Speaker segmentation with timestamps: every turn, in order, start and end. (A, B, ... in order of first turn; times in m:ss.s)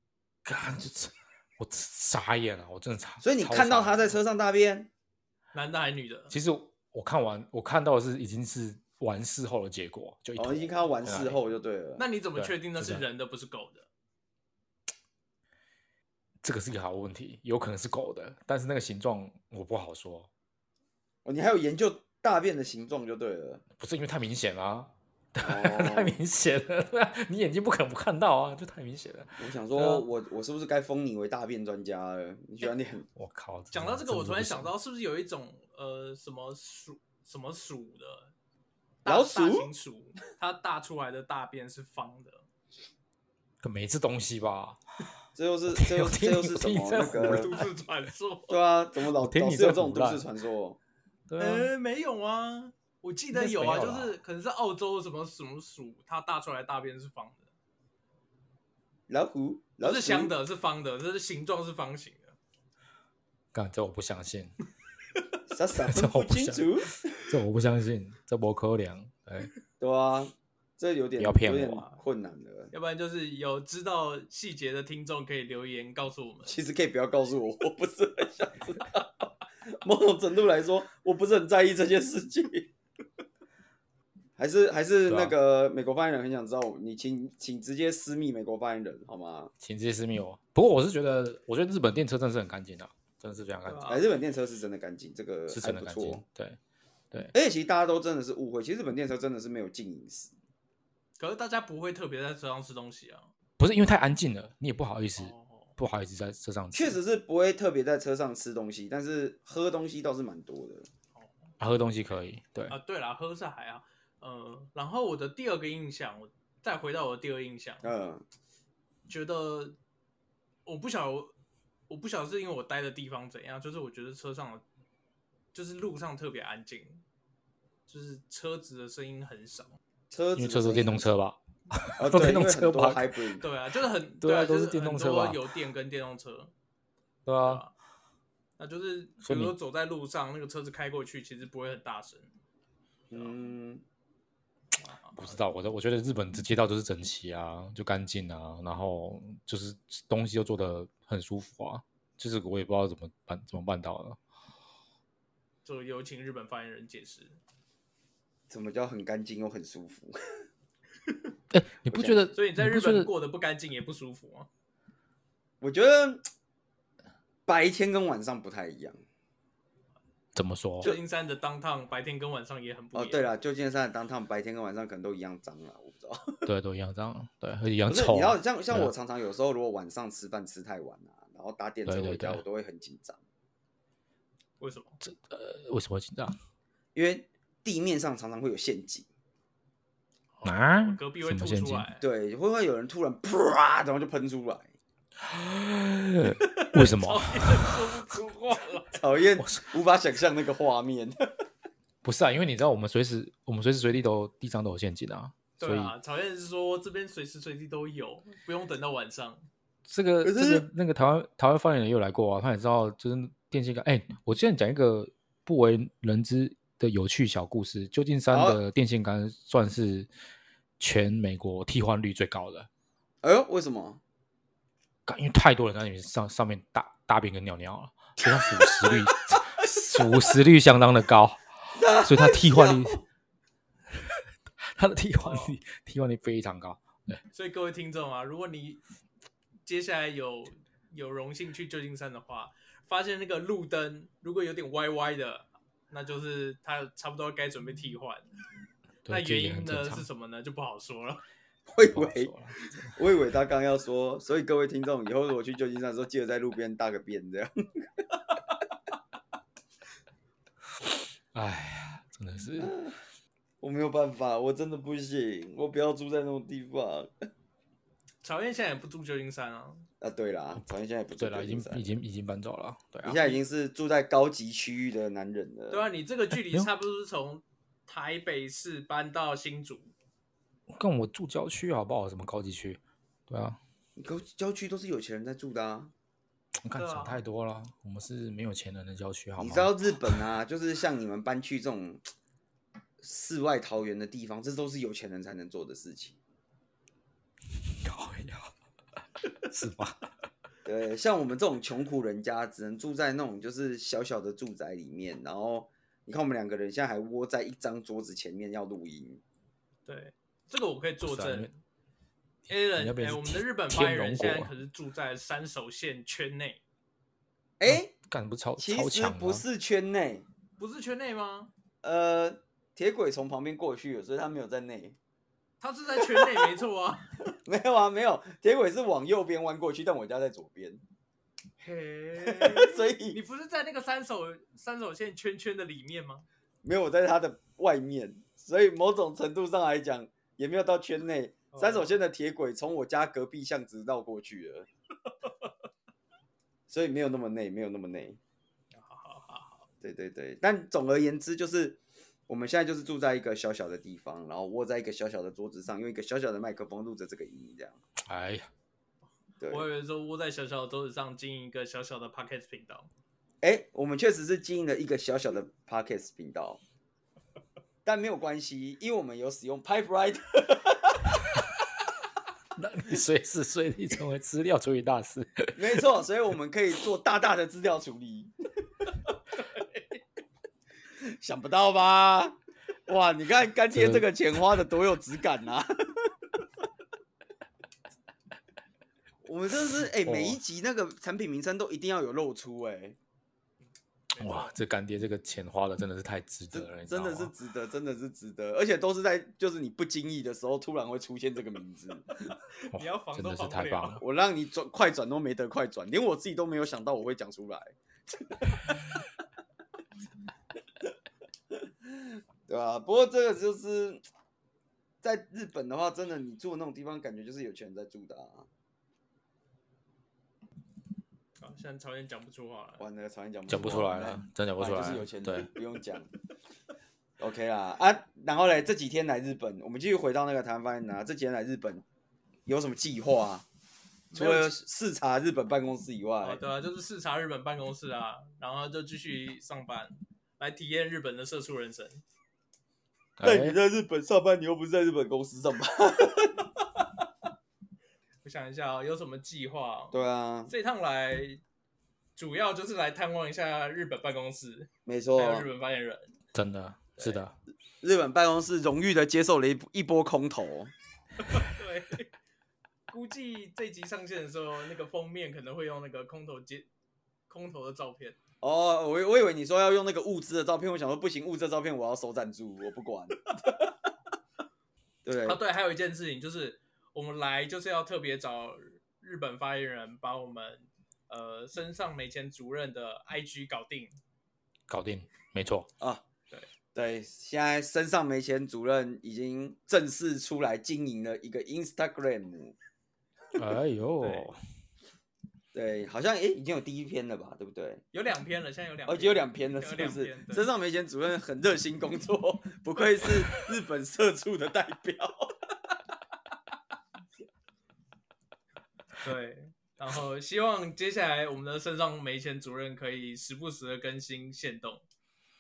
0:00.4-0:04.2 A
0:03.2-0:04.9 B
0:05.5-0:06.3 C
0:06.3-0:11.4 A
0:10.4-0:12.0 B
0:12.0-0:13.9 C
0:12.4-0:13.0 A
0:16.4-0:20.3 A
0:21.2-0:23.6 B
0:23.8-0:30.1 A
0:25.4-0:26.2 B
0:29.4-0:33.1 B
0:33.2-0:34.7 A
0:33.7-0:38.3 C
0:39.0-0:42.4 C
0:39.1-0:39.7 B
0:43.6-0:44.8 A
0:45.4-0:47.5 B
0:45.7-0:47.7 A
0:47.1-0:48.6 C
0:48.5-0:50.8 B
0:49.2-0:50.3 A
0:51.3-0:51.7 A
0:51.4-0:57.5 C
0:53.3-0:54.2 A
0:59.1-1:00.3 B
0:59.8-1:02.4 C
1:03.5-1:04.5 A
1:05.5-1:07.3 B
1:05.8-1:09.5 A
1:09.8-1:12.7 B
1:11.2-1:11.8 A
1:12.7-1:16.6 C
1:16.5-1:22.7 B
1:24.4-1:29.5 B
1:25.1-1:25.3 A
1:29.6-1:33.9 A
1:33.7-1:34.0 C
1:33.9-1:36.2 B
1:35.5-1:36.6 A
1:37.3-1:40.3 B
1:41.2-1:43.3 C
1:43.6-1:47.0 A
1:45.2-1:45.8 C
1:46.7-1:50.9 B
1:51.2-1:51.5 C
1:51.6-1:52.8 A
1:52.7-1:57.9 C
1:57.8-1:58.2 B
1:59.1-1:59.8 C
2:00.7-2:01.3 C
2:01.9-2:04.6 C
2:05.5-2:07.0 C
2:07.9-2:09.8 C
2:10.1-2:11.1 B
2:10.4-2:13.2 A
2:12.0-2:13.4 B
2:13.4-2:16.5 C
2:14.2-2:15.4 A
2:17.3-2:17.6 A
2:17.4-2:17.7 C
2:18.6-2:22.3 C
2:19.2-2:19.5 A
2:23.1-2:23.8 B
2:24.8-2:25.4 C
2:25.2-2:34.2 A
2:35.6-2:37.4 C
2:38.5-2:40.3 B
2:41.5-2:43.1 A
2:41.9-2:42.3 B
2:42.3-2:44.5 C
2:45.6-2:46.2 B
2:47.5-2:49.0 B
2:50.4-2:50.9 A
2:50.8-2:53.3 C
2:53.0-2:56.4 B
2:56.5-2:58.9 A
2:57.9-3:03.2 B
3:01.9-3:02.4 A
3:04.6-3:05.0 C
3:05.0-3:06.4 A
3:07.0-3:09.1 B
3:10.3-3:12.0 C
3:10.4-3:11.9 A
3:12.0-3:14.7 B
3:15.2-3:18.0 A
3:16.2-3:19.0 C
3:19.0-3:21.2 B
3:19.4-3:19.6 A
3:22.0-3:25.9 A
3:25.6-3:29.5 C
3:29.8-3:40.1 A
3:30.2-3:30.6 B
3:38.3-3:38.6 B
3:40.8-3:42.7 A
3:43.2-3:44.0 B
3:45.1-3:53.0 A
3:51.8-3:53.0 B
3:54.0-3:57.2 A
3:55.2-3:55.6 C
3:57.3-3:58.8 C
3:59.7-4:08.3 C
4:09.1-4:10.0 A
4:09.1-4:11.2 C
4:11.7-4:17.8 B
4:11.9-4:12.9 A
4:21.3-4:22.8 A
4:22.6-4:23.0 B
4:23.6-4:27.1 B
4:28.2-4:29.9 C
4:30.0-4:31.9 B
4:31.2-4:33.2 A
4:33.0-4:35.9 B
4:35.7-4:39.9 C
4:36.3-4:36.7 A
4:40.7-4:43.6 A
4:44.0-4:45.9 B
4:46.6-4:50.2 A
4:46.8-4:47.2 C
4:49.4-4:52.1 B
4:53.0-4:56.2 B
4:57.6-4:58.5 A
4:59.5-5:00.0 A
5:00.6-5:09.2 B
5:09.9-5:11.6 C
5:11.0-5:11.5 A
5:12.5-5:16.6 C
5:12.7-5:14.5 A
5:17.6-5:17.9 B
5:17.7-5:19.4 A
5:18.6-5:20.2 B
5:20.6-5:21.5 C
5:21.8-5:25.0 B
5:25.6-5:27.3 C
5:26.0-5:26.5 B
5:27.4-5:30.8 B
5:31.6-5:36.3 C
5:32.2-5:33.2 B
5:36.6-5:44.7 B
5:41.5-5:42.0 C
5:46.7-5:48.2 B
5:48.7-5:49.7 C
5:49.8-5:57.8 B
5:58.0-5:58.5 A
5:59.4-5:59.7 B
5:59.5-6:02.9 C
6:03.4-6:06.6 B
6:07.8-6:11.2 B
6:12.6-6:15.6 A
6:15.6-6:18.3 B
6:21.0-6:26.1 B
6:23.7-6:24.1 A
6:29.2-6:33.0 B
6:29.8-6:30.4 A
6:34.1-6:34.5 C
6:34.2-6:37.3 A
6:36.5-6:42.1 B
6:42.3-6:44.0 C
6:42.7-6:44.0 A
6:44.0-6:48.7 B
6:51.8-6:54.0 B
6:55.0-6:58.5 B
7:01.4-7:02.8 C
7:02.8-7:06.1 B
7:03.5-7:05.5 A
7:07.2-7:11.8 B
7:12.5-7:13.4 B
7:14.1-7:14.5 C
7:14.1-7:16.4 B
7:16.2-7:22.0 C
7:23.2-7:23.6 A
7:23.2-7:26.5 B
7:28.2-7:30.0 C
7:29.9-7:30.5 B
7:30.5-7:31.4 C
7:32.2-7:36.2 C
7:34.9-7:35.5 B
7:36.3-7:37.4 A
7:37.8-7:40.7 B
7:41.3-7:42.1 C
7:42.9-7:46.7 C
7:47.3-7:48.2 C
7:48.4-7:53.2 B
7:55.0-7:55.4 B
7:55.2-8:04.0 C
8:04.7-8:05.7 A
8:06.8-8:12.6 B
8:13.4-8:14.4 A
8:14.0-8:14.3 C
8:15.5-8:17.8 B
8:17.9-8:20.5 C
8:18.9-8:25.3 B
8:29.0-8:34.8 C